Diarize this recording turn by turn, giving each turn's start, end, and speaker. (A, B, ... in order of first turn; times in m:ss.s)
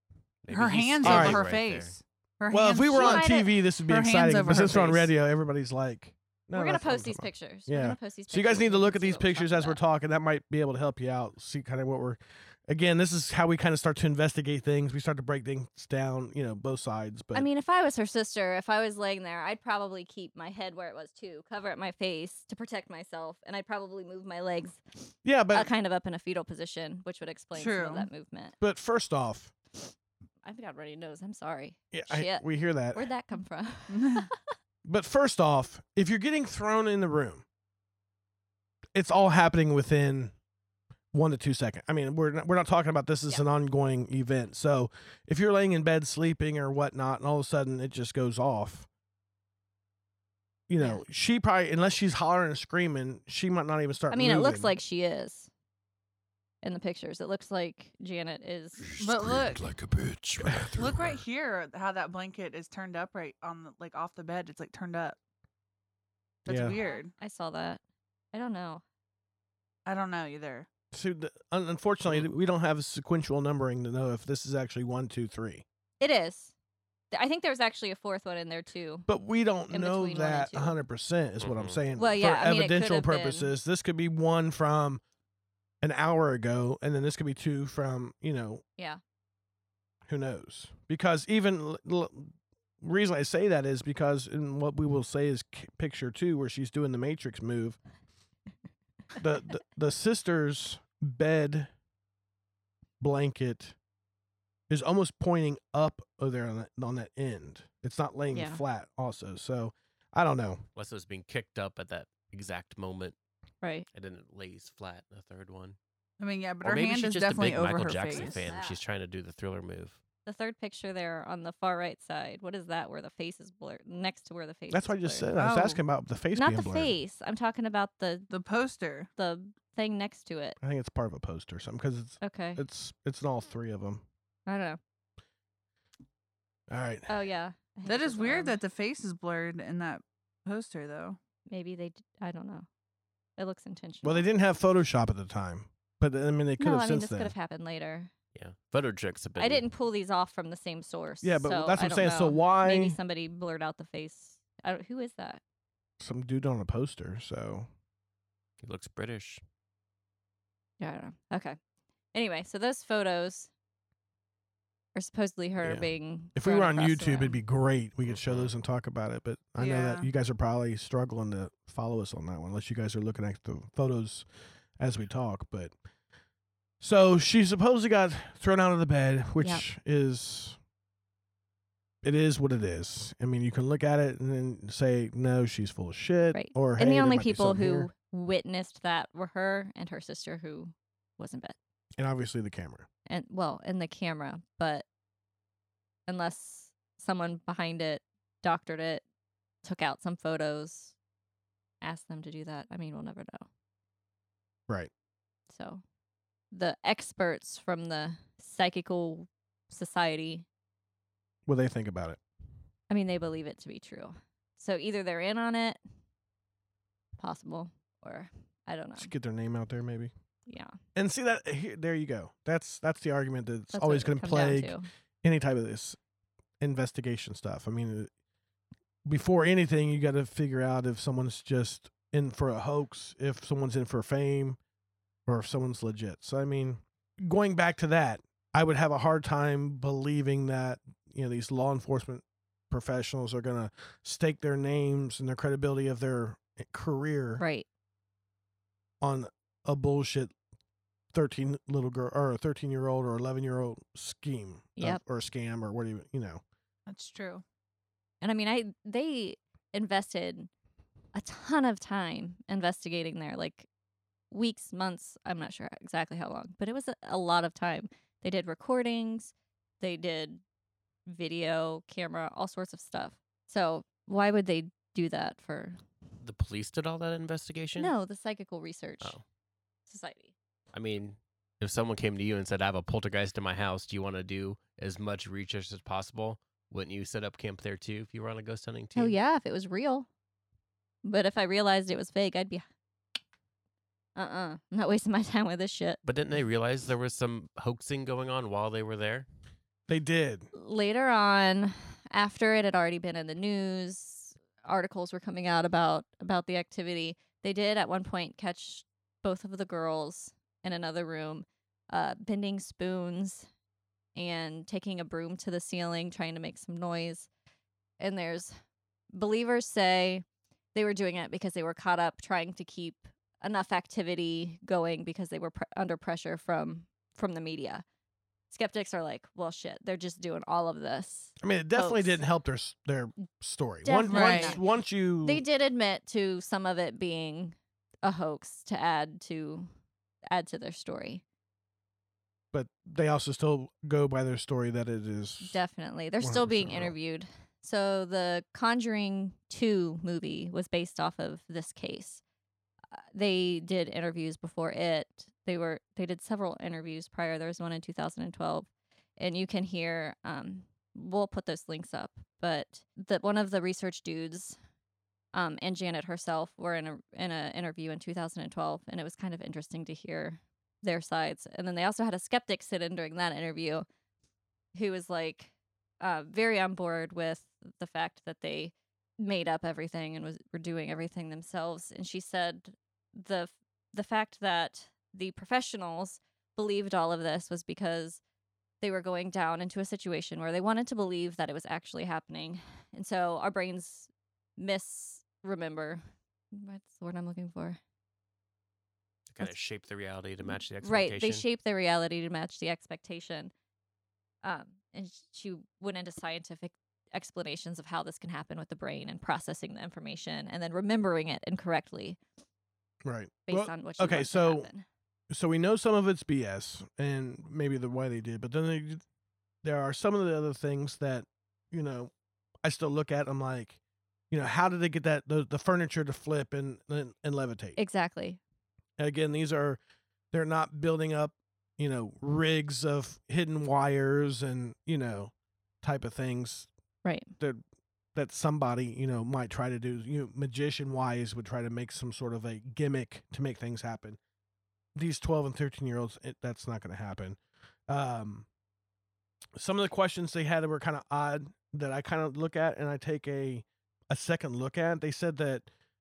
0:00.4-0:02.0 A
0:00.5-0:05.1 B
0:01.0-0:01.5 C
0:02.5-0:17.5 C
0:02.9-0:03.5 D
0:06.5-0:09.8 D
0:17.3-0:28.6 D
0:25.2-0:25.7 C
0:27.5-0:28.1 B
0:28.6-0:29.5 C
0:30.4-0:34.5 D
0:31.9-0:33.1 C
0:33.9-0:34.2 B
0:34.8-0:37.4 C
0:39.0-0:40.3 C
0:41.1-0:48.9 C
0:50.7-0:54.8 C
0:50.8-0:51.0 D
0:54.1-0:55.5 D
0:56.6-0:58.8 D
0:58.8-1:01.2 E
0:59.0-0:59.7 B
1:00.8-1:05.2 B
1:06.4-1:07.1 B
1:06.5-1:06.8 C
1:06.8-1:07.8 D
1:08.3-1:08.8 D
1:09.9-1:10.7 B
1:10.9-1:15.6 C
1:16.0-1:16.5 D
1:17.1-1:19.1 D
1:19.1-1:25.0 C
1:19.7-1:20.8 D
1:21.4-1:21.8 A
1:22.0-1:23.5 D
1:25.8-1:28.6 C
1:30.1-1:37.8 C
1:39.2-1:41.7 C
1:43.0-1:43.8 C
1:44.7-1:50.6 C
1:48.3-1:48.6 D
1:50.8-1:53.2 A
1:53.9-1:55.8 A
1:56.2-1:58.5 B
1:56.6-2:00.0 A
1:58.1-1:58.8 D
2:00.3-2:05.3 D
2:04.7-2:06.9 C
2:05.4-2:05.8 B
2:06.4-2:08.3 D
2:08.3-2:09.1 B
2:09.2-2:10.6 D
2:10.6-2:14.0 C
2:12.2-2:12.6 D
2:14.5-2:14.8 D
2:16.7-2:17.1 C
2:17.1-2:18.6 D
2:17.8-2:21.2 B
2:21.5-2:22.7 D
2:23.4-2:24.3 D
2:24.0-2:27.3 C
2:26.6-2:28.1 D
2:28.4-2:29.7 A
2:29.4-2:35.4 D
2:31.2-2:33.0 C
2:36.0-2:37.7 C
2:38.6-2:39.4 A
2:40.8-2:41.6 D
2:42.1-2:43.5 D
2:45.0-2:47.4 D
2:45.6-2:54.3 C
2:48.1-2:48.5 A
2:49.6-2:50.1 B
2:54.8-2:55.7 C
2:56.8-3:00.6 C
2:59.4-2:59.6 D
3:02.0-3:07.9 C
3:06.3-3:11.6 D
3:12.0-3:12.9 C
3:13.1-3:14.8 D
3:16.1-3:19.0 D
3:19.6-3:21.0 D
3:21.8-3:23.5 D
3:25.5-3:25.8 D
3:26.5-3:30.5 D
3:31.5-3:32.2 C
3:32.9-3:35.8 D
3:37.2-3:39.1 D
3:39.0-3:40.1 C
3:40.5-3:40.8 D
3:41.0-3:46.0 C
3:43.7-3:44.9 D
3:46.6-3:48.1 C
3:49.0-3:54.6 C
3:55.3-4:07.4 C
4:07.4-4:07.7 D
4:09.0-4:10.3 C
4:11.1-4:16.4 C
4:16.9-4:17.4 B
4:18.2-4:20.5 D
4:21.1-4:23.7 D
4:24.3-4:30.4 D
4:31.1-4:35.8 D
4:36.2-4:37.9 A
4:37.8-4:39.2 D
4:39.9-4:40.3 D
4:40.7-4:49.2 A
4:49.0-4:50.1 D
4:51.0-4:52.6 D
4:54.2-4:56.0 D
4:56.0-4:59.3 A
4:59.9-5:00.5 C
5:00.5-5:13.5 D
5:14.2-5:17.3 D
5:18.0-5:18.6 D
5:19.1-5:20.2 D
5:20.8-5:27.8 D
5:28.5-5:32.2 D
5:31.4-5:35.4 C
5:33.8-5:34.6 D
5:34.1-5:34.6 B
5:35.2-5:39.7 D
5:40.3-5:41.2 D
5:42.5-5:45.6 C
5:45.4-5:52.2 D
5:46.2-5:46.9 C
5:52.9-6:04.6 D
6:05.3-6:13.9 D
6:14.7-6:28.2 D
6:28.8-6:37.8 D
6:39.3-6:41.4 A
6:40.5-6:43.5 D
6:44.4-6:52.2 D
6:53.0-6:54.7 C
6:53.5-6:54.8 D
6:55.3-6:59.0 C
6:59.6-7:02.1 C
7:02.6-7:03.8 C
7:04.3-7:07.8 C
7:07.8-7:08.4 D
7:09.0-7:09.8 C
7:10.3-7:16.7 C
7:17.0-7:17.3 D
7:18.2-7:24.2 C
7:25.0-7:28.5 C
7:29.6-7:35.7 C